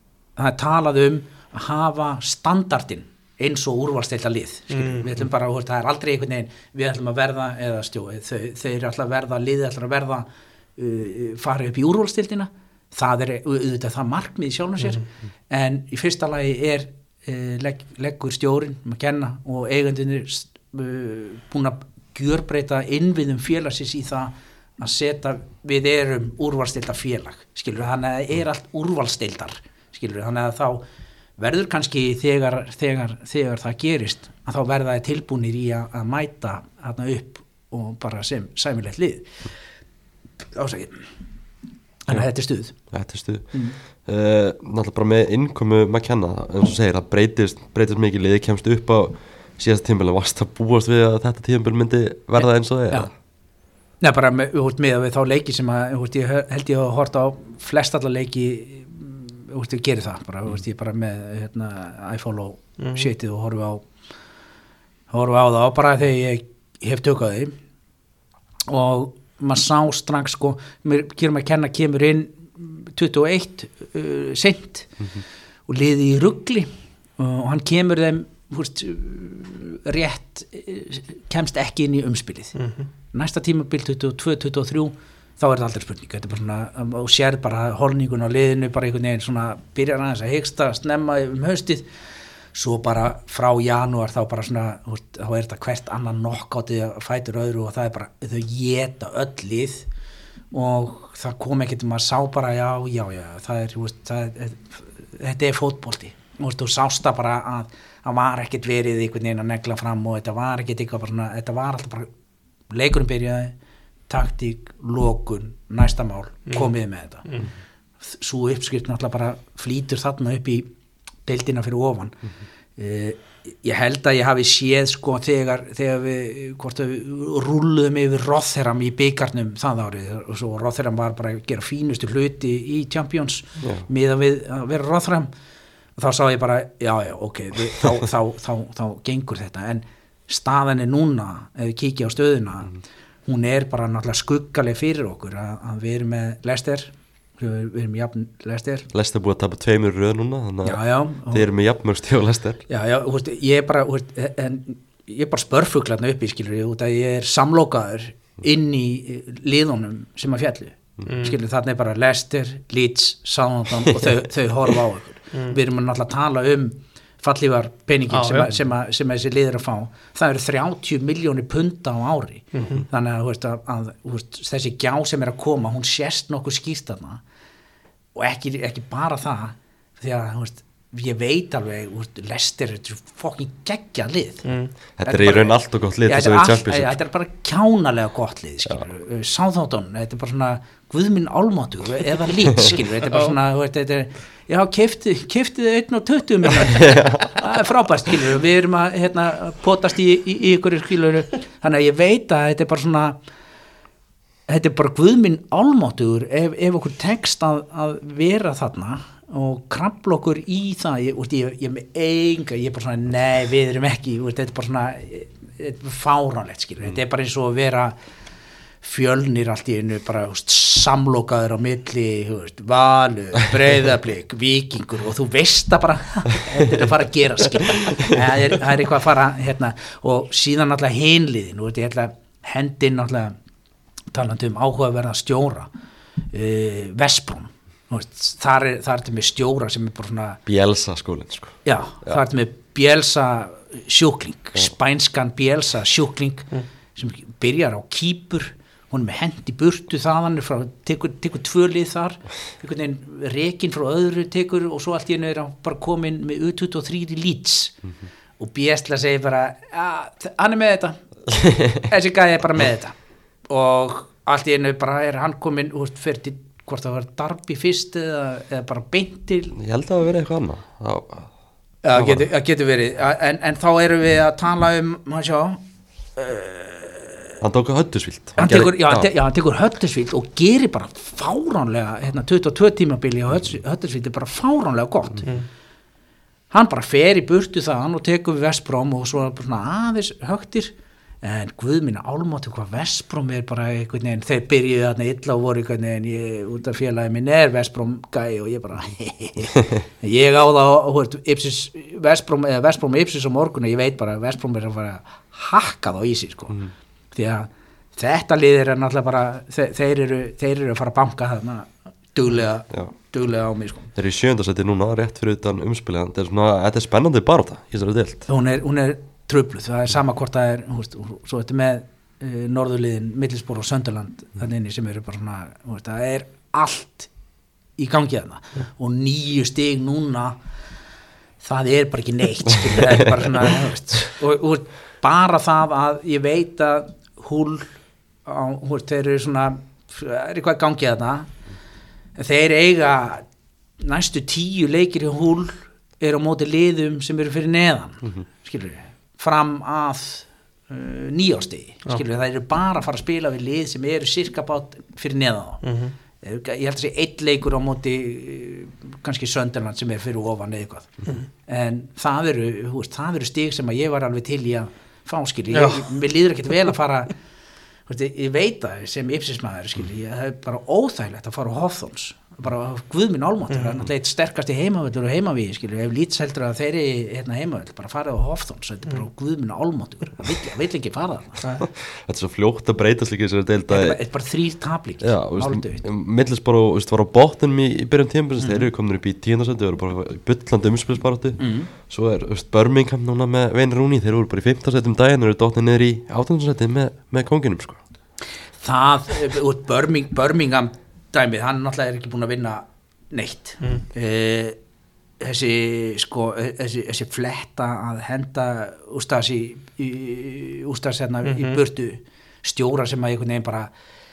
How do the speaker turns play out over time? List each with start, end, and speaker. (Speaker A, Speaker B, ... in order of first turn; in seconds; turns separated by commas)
Speaker A: 0.4-10.3, Speaker B: 4.7-5.3, Speaker A: 10.8-30.8, Speaker A: 31.4-39.3, Speaker A: 40.5-41.1, Speaker A: 42.1-42.8, Speaker C: 42.8-53.1, Speaker A: 43.5-43.8, Speaker A: 54.0-63.9, Speaker B: 62.8-63.1, Speaker A: 65.1-67.5, Speaker A: 68.7-75.0, Speaker A: 75.7-82.5, Speaker B: 82.5-82.9, Speaker A: 83.1-91.8, Speaker A: 92.5-99.9, Speaker A: 100.5-112.1, Speaker A: 112.7-113.5, Speaker A: 114.1-117.3, Speaker A: 118.0-120.7, Speaker A: 121.3-122.2, Speaker A: 122.8-135.3, Speaker C: 133.6-133.9, Speaker A: 136.0-148.9, Speaker C: 148.9-152.6, Speaker A: 150.6-151.5, Speaker A: 152.7-177.2, Speaker B: 161.1-161.4, Speaker B: 168.1-168.5, Speaker B: 172.5-172.8, Speaker A: 178.2-184.5, Speaker B: 184.4-184.7, Speaker C: 185.0-187.0, Speaker A: 185.0-185.6, Speaker A: 186.1-203.2, Speaker B: 193.1-193.4, Speaker C: 196.7-197.3, Speaker A: 204.5-218.0, Speaker A: 218.8-233.3, Speaker A: 234.1-235.7, Speaker A: 236.3-240.4, Speaker C: 240.5-242.2, Speaker A: 241.7-257.8, Speaker A: 258.4-262.9, Speaker C: 261.4-261.8, Speaker A: 263.5-269.6, Speaker C: 269.6-271.3, Speaker A: 271.8-275.6, Speaker C: 271.9-272.3, Speaker A: 276.1-277.4, Speaker C: 277.4-279.1, Speaker A: 278.4-285.3, Speaker A: 286.5-306.6, Speaker A: 307.1-313.9, Speaker C: 314.0-318.3, Speaker A: 318.3-327.1, Speaker A: 327.8-330.4, Speaker A: 331.4-341.3, Speaker A: 342.2-343.2, Speaker A: 343.8-355.6, Speaker B: 355.6-355.9, Speaker A: 356.2-360.9, Speaker A: 361.5-367.1, Speaker B: 365.5-365.9, Speaker A: 367.9-381.4, Speaker B: 373.5-373.8, Speaker C: 381.7-384.0, Speaker A: 383.7-385.8, Speaker C: 385.0-397.8, Speaker A: 388.4-388.6, Speaker A: 391.4-391.7, Speaker A: 398.6-404.6, Speaker A: 405.2-413.7, Speaker B: 411.2-411.6